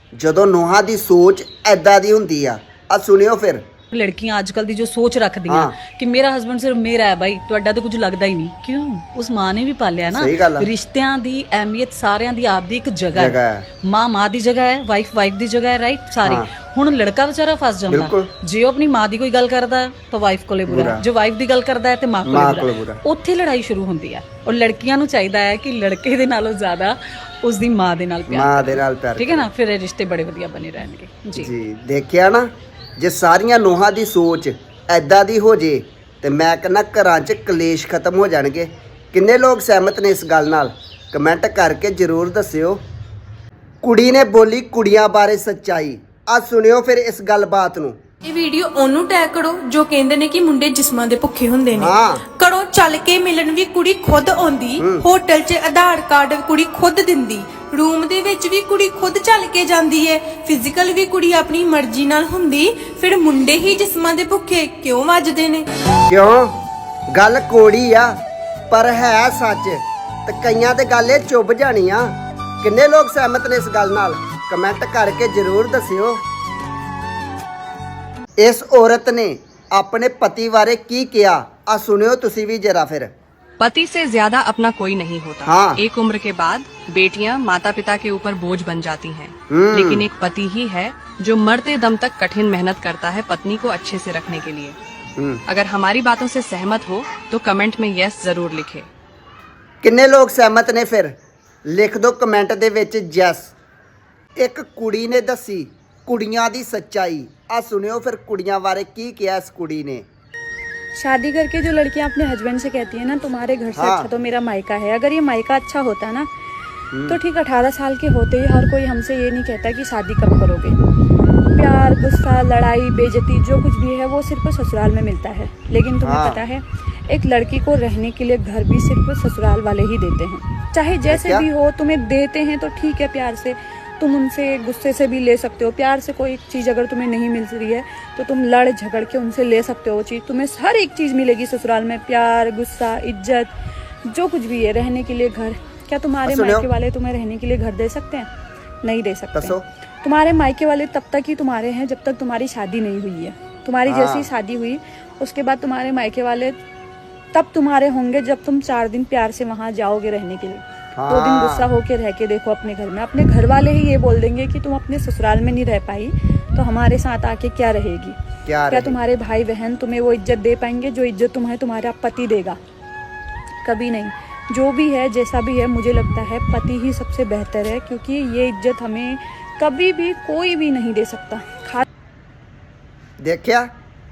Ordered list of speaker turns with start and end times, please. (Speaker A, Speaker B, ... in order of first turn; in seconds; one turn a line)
Speaker A: 0.1-3.6
Speaker B: 3.9-31.5
Speaker A: 5.5-5.8
Speaker A: 10.1-10.7
Speaker A: 13.2-13.7
Speaker A: 16.2-16.5
Speaker A: 17.9-18.3
Speaker A: 20.7-21.1
Speaker A: 22.2-23.0
Speaker A: 28.3-29.5
Speaker A: 31.4-42.8
Speaker A: 43.8-48.0
Speaker C: 48.2-65.7
Speaker A: 51.7-52.2
Speaker A: 54.8-55.1
Speaker A: 66.1-66.5
Speaker A: 67.1-68.1
Speaker A: 68.7-76.2
Speaker A: 78.4-83.1
Speaker D: 83.6-94.8
Speaker A: 85.5-85.8
Speaker A: 89.5-90.1
Speaker A: 95.2-95.4
Speaker D: 95.5-98.9
Speaker A: 99.8-101.1
Speaker A: 101.7-103.5
Speaker A: 104.4-110.0
Speaker E: 111.0-116.3
Speaker A: 113.8-114.1
Speaker A: 116.9-117.2
Speaker E: 117.1-120.8
Speaker E: 121.5-143.5
Speaker A: 126.0-126.4
Speaker A: 131.1-131.5
Speaker E: 144.1-148.3
Speaker A: 146.3-146.7
Speaker E: 148.8-156.6
Speaker A: 149.3-149.6
Speaker A: 153.9-154.3
Speaker E: 157.3-172.6
Speaker A: 161.0-161.7
Speaker A: 168.4-169.0
Speaker E: 173.6-181.8
Speaker A: 183.2-183.7